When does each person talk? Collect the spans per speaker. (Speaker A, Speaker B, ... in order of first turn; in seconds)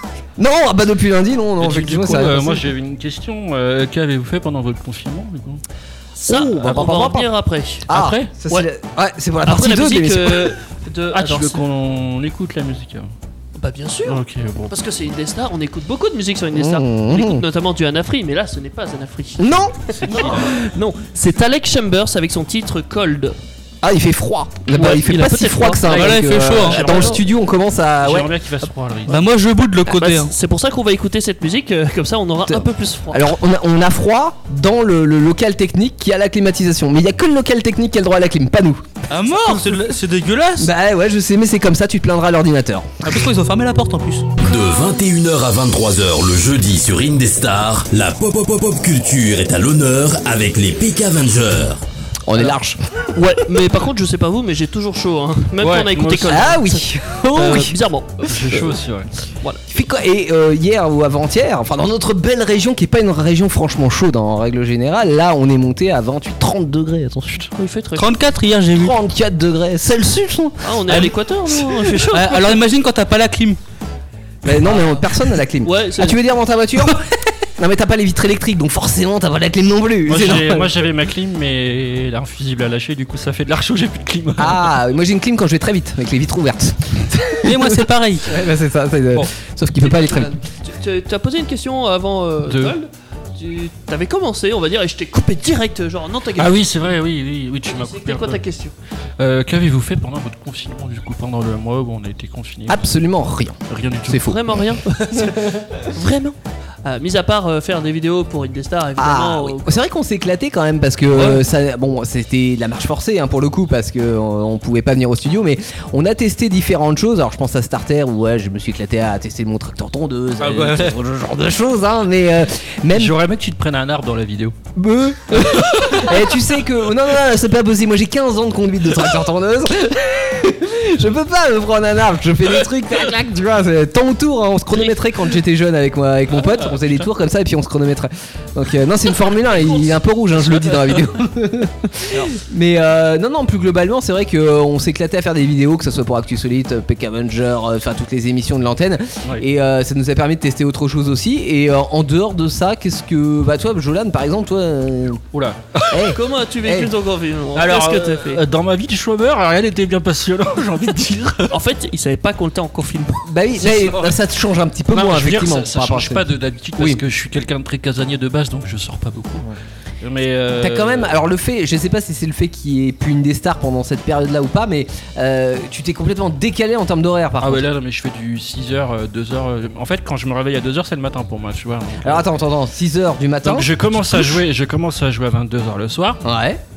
Speaker A: 0.4-2.7, 6.3-7.3, 7.9-10.6, 16.5-17.4, 19.4-20.5, 23.8-28.3, 32.5-39.7, 40.6-43.0, 52.3-53.2, 56.3-57.8, 59.7-67.5, 68.7-71.1, 74.4-80.7, 84.4-90.3, 102.7-104.4, 109.0-123.2, 124.8-155.2, 155.9-156.9, 163.3-167.0, 170.6-177.7, 182.0-184.4, 186.2-186.6
Speaker B: 1.6-5.6, 7.9-8.3, 11.1-13.1, 14.1-14.7, 20.0-20.6, 25.9-27.2, 28.0-29.2, 55.6-56.5, 58.3-59.1, 80.1-84.8, 92.5-92.8, 96.4-98.4, 99.2-102.9, 103.7-104.3, 120.4-121.0, 122.9-124.5, 125.4-126.1, 136.3-137.1, 155.3-156.1, 157.6-161.5, 163.6-164.2, 164.9-169.5, 170.0-171.2, 177.4-182.3, 183.4-186.2
Speaker C: 6.2-7.9, 9.4-11.6, 13.6-23.4, 24.7-25.9, 29.9-33.2, 53.1-58.1, 67.6-68.2, 70.6-72.6, 75.6-76.2, 89.8-96.7, 97.7-98.7, 104.2-109.8, 156.1-158.4, 161.5-163.3
Speaker D: 25.9-27.0, 29.1-30.3, 39.1-40.7, 43.0-44.3, 68.0-69.0, 72.0-73.6, 87.4-88.3
Speaker E: 44.4-51.8